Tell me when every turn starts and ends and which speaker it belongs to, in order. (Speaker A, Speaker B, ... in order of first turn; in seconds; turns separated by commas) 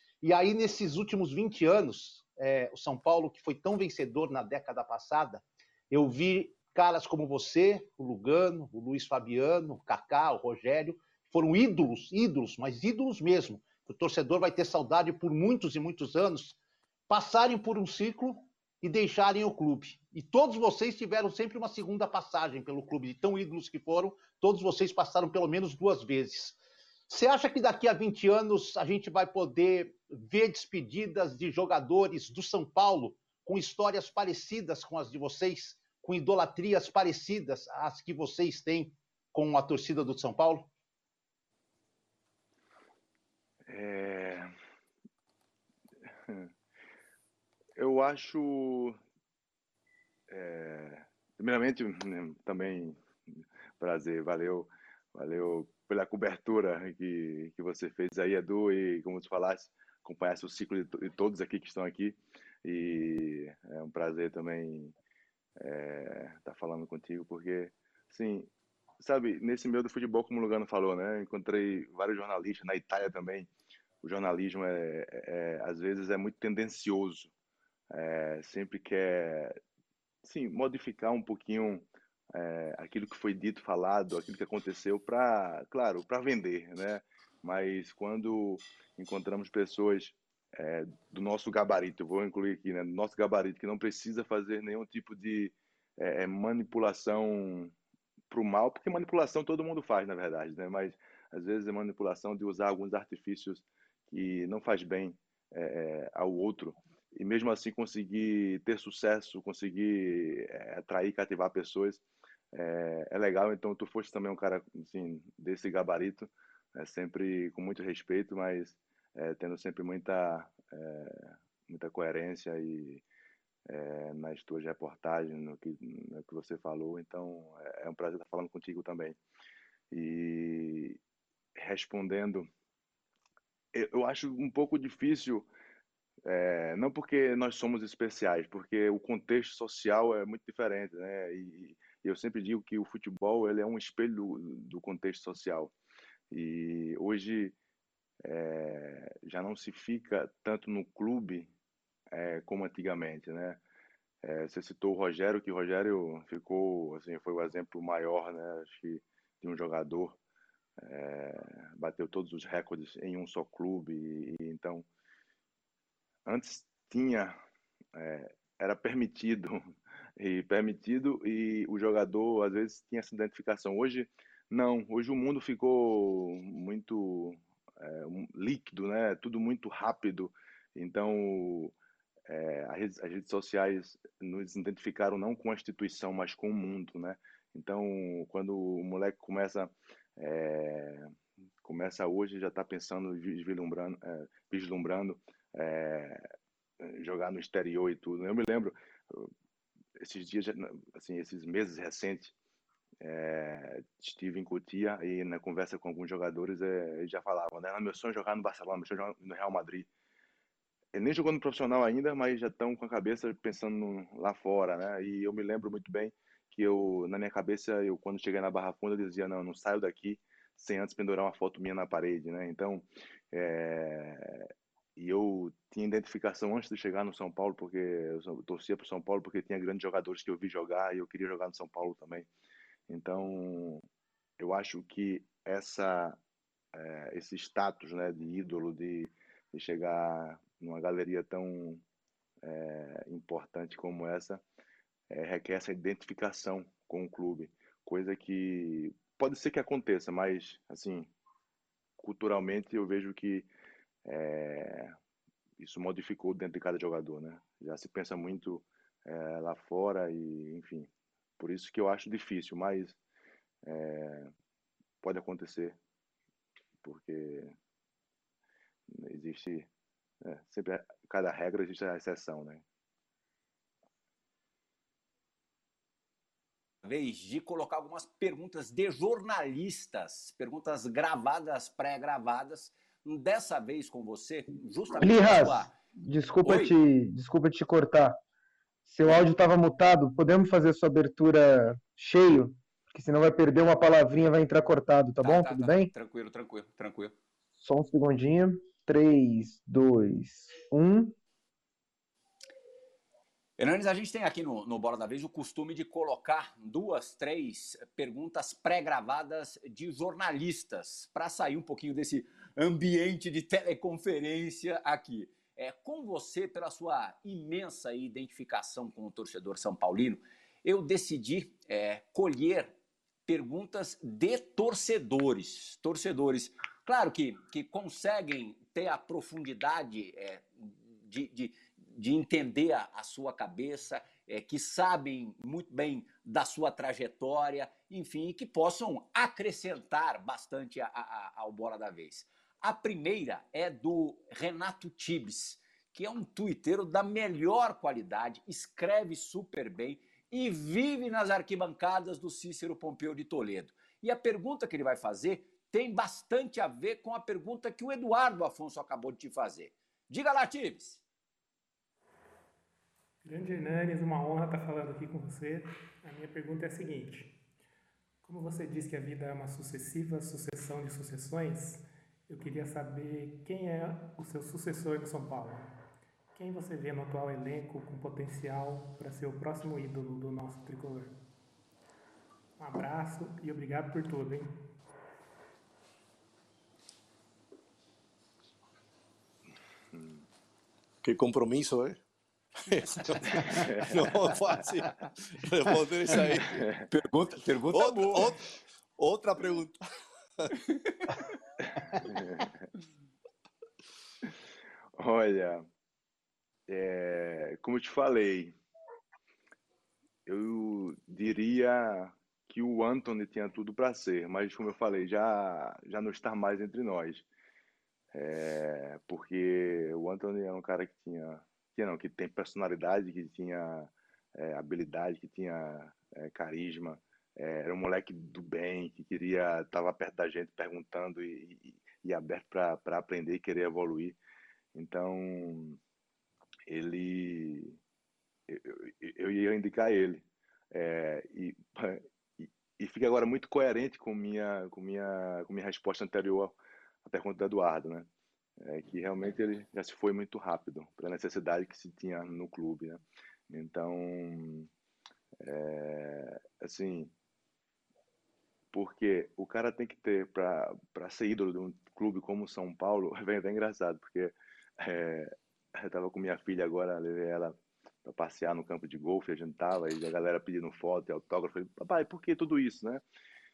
Speaker A: 0.2-16.6, Speaker A: 17.1-26.6, Speaker A: 27.1-40.7, Speaker B: 43.7-44.5, Speaker B: 47.8-49.0, Speaker B: 50.3-53.0, Speaker B: 53.8-64.9, Speaker B: 65.6-68.5, Speaker B: 69.0-73.5, Speaker B: 74.0-77.3, Speaker B: 77.9-79.6, Speaker B: 80.2-97.7, Speaker B: 98.3-123.0, Speaker B: 123.7-129.2, Speaker B: 129.9-131.0, Speaker B: 131.6-132.5, Speaker B: 133.7-135.5, Speaker B: 136.2-145.7, Speaker B: 146.3-147.6, Speaker B: 148.2-151.5, Speaker B: 152.1-153.6, Speaker B: 154.2-160.2, Speaker B: 160.8-164.8, Speaker B: 166.2-167.4, Speaker B: 167.9-169.6, Speaker B: 170.2-181.7, Speaker B: 182.3-191.1, Speaker B: 191.6-196.2, Speaker B: 196.8-199.3, Speaker B: 200.0-202.3, Speaker B: 203.0-209.9, Speaker B: 210.9-232.3, Speaker B: 232.9-233.8, Speaker B: 234.4-236.2, Speaker B: 236.7-241.8, Speaker B: 242.4-244.4, Speaker B: 245.1-251.1, Speaker B: 252.0-253.5, Speaker B: 254.0-254.9, Speaker B: 255.6-263.0, Speaker B: 263.6-264.3, Speaker B: 265.0-265.8, Speaker B: 266.8-267.5, Speaker B: 268.9-269.7, Speaker B: 270.2-272.6, Speaker C: 276.8-285.7, Speaker D: 285.0-288.2, Speaker C: 286.4-286.7, Speaker D: 288.9-295.9, Speaker C: 295.2-297.1, Speaker D: 297.6-301.1, Speaker C: 303.6-322.7, Speaker C: 323.3-361.0, Speaker E: 363.2-367.3, Speaker E: 368.2-375.7, Speaker E: 376.3-381.2, Speaker E: 382.6-384.6, Speaker B: 389.9-390.2, Speaker F: 391.0-392.0, Speaker F: 392.6-396.7, Speaker B: 393.4-393.9, Speaker C: 396.9-398.3, Speaker F: 397.7-398.4, Speaker F: 399.0-399.8, Speaker C: 400.7-401.1, Speaker B: 401.8-402.6, Speaker B: 405.0-405.6, Speaker B: 406.7-408.5, Speaker B: 410.2-417.3, Speaker B: 418.1-434.2, Speaker B: 434.7-435.8, Speaker B: 436.7-437.8, Speaker B: 438.5-448.1, Speaker B: 448.6-454.7, Speaker B: 455.4-457.1, Speaker B: 458.7-473.0